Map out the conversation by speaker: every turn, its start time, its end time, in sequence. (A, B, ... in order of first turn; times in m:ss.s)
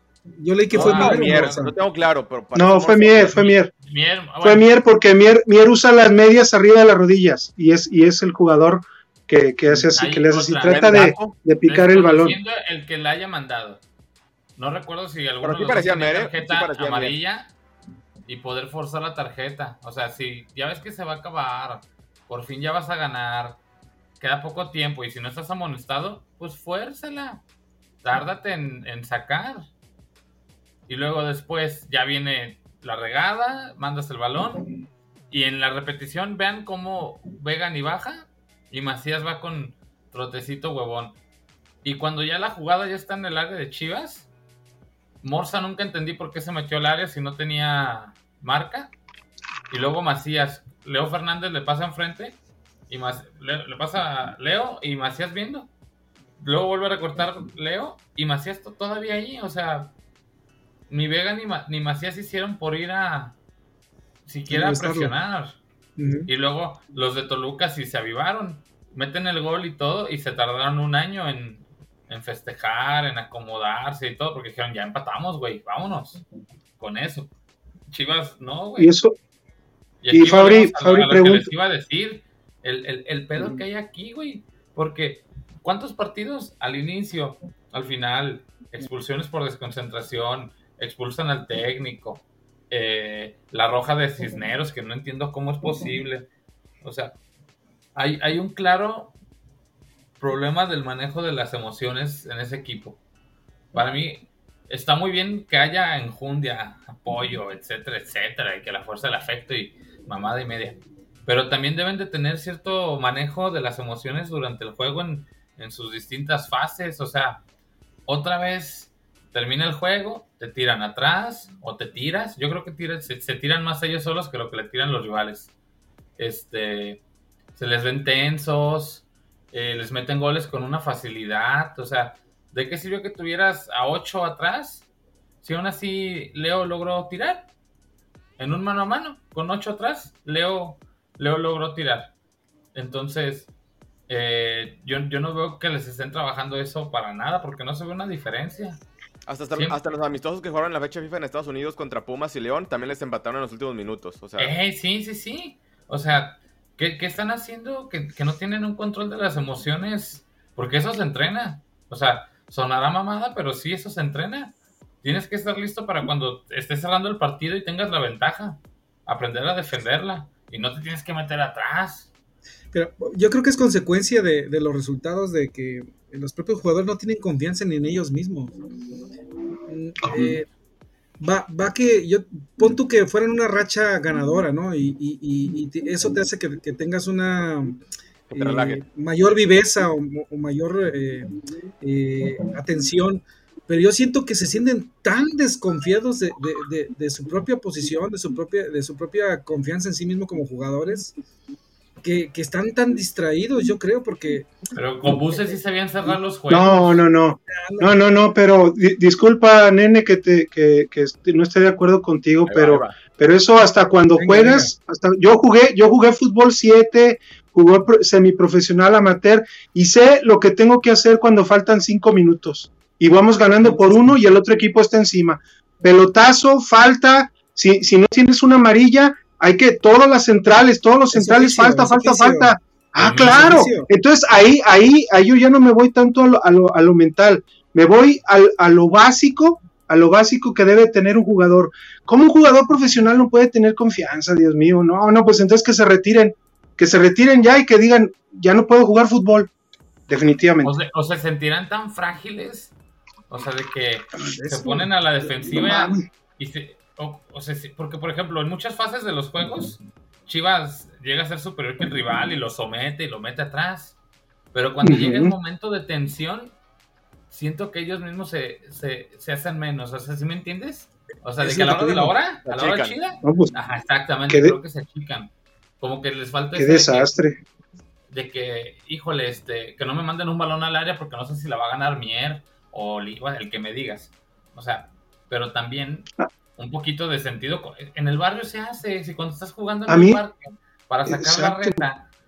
0:00.4-0:01.7 A
0:00.7-0:01.6 B
0:00.7-0:03.5 C
0:02.6-0:03.7 D
0:03.2-0:04.7 B
0:04.4-0:12.4 D
0:09.9-0:11.1 B
0:10.6-0:11.4 C
0:11.7-0:13.8 B
0:14.6-0:17.5 B
0:15.4-0:17.2 C
0:18.3-0:23.6 B
0:24.2-0:27.4 B
0:28.0-0:29.7 B
0:30.9-0:34.7 B
0:35.3-0:41.2 B
0:41.8-0:44.3 B
0:45.2-0:48.9 B
0:49.7-0:52.4 B
0:52.9-0:55.7 B
0:56.4-0:59.9 B
1:00.9-1:03.4 B
1:04.3-1:05.6 B
1:04.5-1:05.1 A
1:06.0-1:06.3 A
1:06.3-1:16.2 B
1:16.8-1:17.3 B
1:17.9-1:19.0 B
1:18.8-1:19.2 D
1:20.0-1:36.3 B
1:20.1-1:21.5 D
1:36.8-1:37.2 B
1:38.0-1:39.2 B
1:40.2-1:43.0 B
1:43.7-1:57.4 B
1:58.1-2:05.5 B
2:06.2-2:07.0 B
2:07.6-2:14.9 B
2:15.4-2:17.5 B
2:18.4-2:22.1 B
2:22.7-2:23.5 B
2:24.1-2:28.8 B
2:29.3-2:34.5 C
2:34.4-2:52.1 B
2:52.7-2:58.6 A
2:59.7-3:00.5 A
3:00.0-3:00.3 D
3:01.2-3:07.8 A
3:08.3-3:08.8 C
3:08.4-3:11.3 A
3:11.8-3:21.1 A
3:22.0-3:24.5 A
3:24.8-3:27.1 B
3:26.5-4:09.5 D
3:27.5-3:27.9 A
3:32.4-3:33.0 C
3:34.2-3:34.7 A
3:43.6-3:44.2 A
3:51.1-3:53.9 A
3:53.0-3:53.7 B
4:10.1-4:10.7 D
4:10.6-4:12.7 B
4:13.3-4:24.0 B
4:14.2-4:16.0 D
4:24.5-4:26.6 B
4:24.8-4:25.4 D
4:27.3-4:37.1 B
4:31.4-4:32.2 A
4:32.4-4:33.0 C
4:33.2-4:33.5 D
4:34.3-4:34.6 D
4:36.6-4:37.4 D
4:38.1-4:52.1 B
4:49.9-4:50.2 D
4:51.1-4:51.8 D